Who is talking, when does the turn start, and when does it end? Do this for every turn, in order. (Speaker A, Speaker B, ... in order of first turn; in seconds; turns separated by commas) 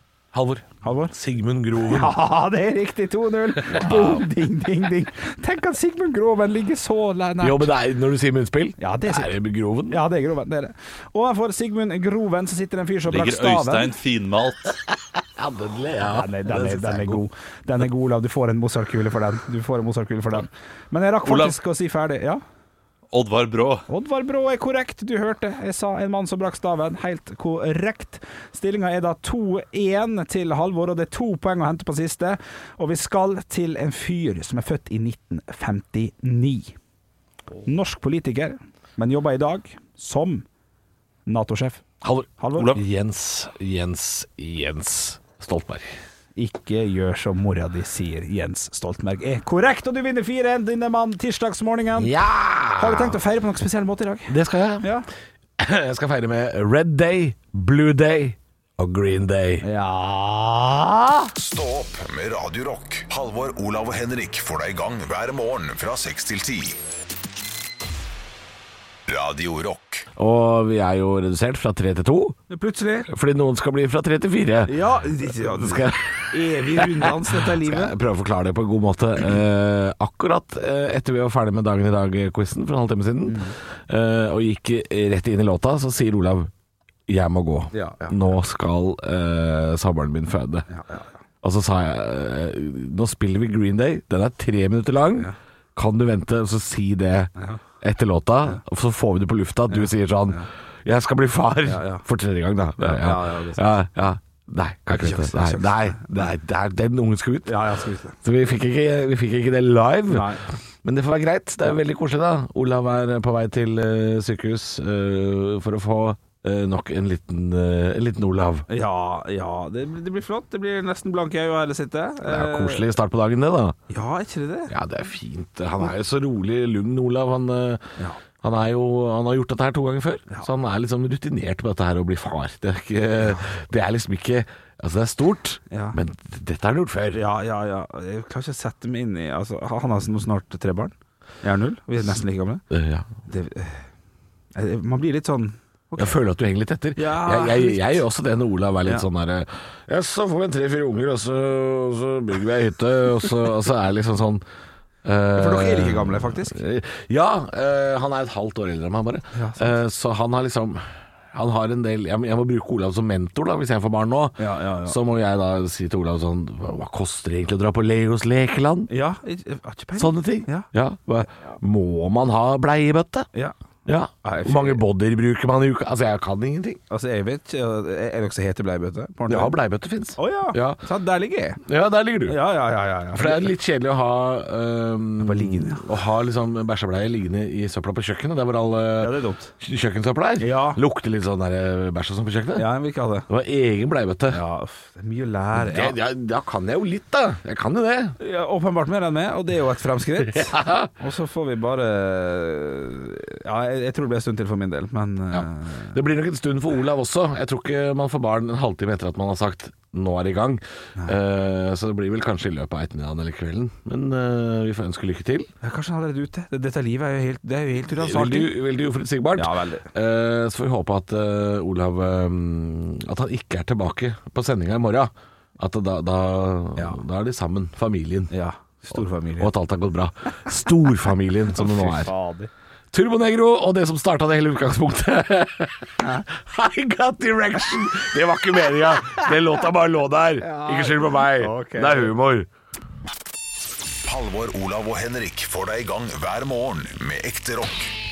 Speaker A: 0.3-2.1, Speaker B: 0.8-1.1, Speaker B: 1.8-7.7, Speaker C: 3.8-4.2, Speaker A: 7.4-10.0, Speaker B: 8.8-9.3, Speaker B: 9.9-13.9, Speaker C: 13.1-14.8, Speaker A: 15.1-17.2, Speaker B: 16.1-22.4, Speaker C: 21.2-21.5, Speaker C: 23.1-23.8, Speaker B: 23.9-36.7, Speaker B: 37.6-40.4, Speaker B: 41.2-41.8, Speaker A: 42.0-45.9, Speaker B: 42.4-42.7, Speaker B: 46.4-52.1, Speaker A: 52.0-53.2, Speaker B: 52.8-55.1, Speaker A: 54.3-54.9, Speaker A: 55.6-59.6, Speaker B: 59.6-61.3, Speaker D: 61.4-66.8, Speaker D: 69.1-70.1, Speaker A: 70.2-72.4, Speaker B: 72.5-73.1, Speaker A: 73.1-74.8, Speaker B: 74.7-78.0, Speaker A: 75.3-86.5, Speaker B: 83.3-83.5, Speaker A: 87.1-90.7, Speaker B: 87.7-88.2, Speaker B: 90.7-91.0, Speaker A: 91.4-107.7, Speaker B: 99.7-100.5, Speaker B: 101.6-102.0, Speaker B: 102.8-103.7, Speaker B: 104.9-106.1, Speaker B: 107.5-108.2, Speaker A: 108.2-118.7, Speaker B: 110.1-110.4, Speaker B: 118.7-122.9, Speaker A: 122.2-123.8, Speaker B: 123.9-124.7, Speaker A: 124.7-127.8, Speaker A: 128.4-137.2, Speaker B: 135.7-136.0, Speaker B: 137.1-142.6, Speaker A: 142.7-143.1, Speaker B: 143.3-143.8, Speaker B: 144.5-146.2, Speaker A: 146.0-154.4, Speaker B: 146.9-148.0, Speaker A: 155.0-168.9, Speaker B: 155.3-156.6, Speaker B: 159.3-159.8, Speaker B: 164.4-165.0, Speaker B: 168.9-170.7, Speaker A: 170.0-173.3, Speaker A: 173.8-176.8, Speaker B: 174.2-174.8, Speaker B: 176.9-179.5, Speaker A: 179.3-180.8, Speaker B: 180.2-181.6, Speaker A: 181.6-182.4, Speaker B: 182.3-183.5, Speaker A: 183.1-192.7, Speaker B: 185.2-185.9, Speaker B: 189.0-189.5, Speaker B: 190.4-190.8, Speaker B: 192.6-193.3, Speaker A: 193.3-194.4, Speaker B: 194.3-196.0, Speaker A: 195.5-198.2, Speaker B: 198.2-205.9, Speaker A: 200.3-200.9, Speaker A: 205.3-215.5, Speaker B: 215.6-218.5, Speaker A: 217.9-228.3, Speaker B: 219.3-219.9, Speaker B: 226.8-227.0, Speaker B: 228.3-229.5, Speaker A: 228.9-232.1, Speaker B: 231.5-232.5, Speaker A: 232.9-242.5, Speaker B: 236.0-236.2, Speaker B: 240.4-242.2, Speaker D: 244.0-247.9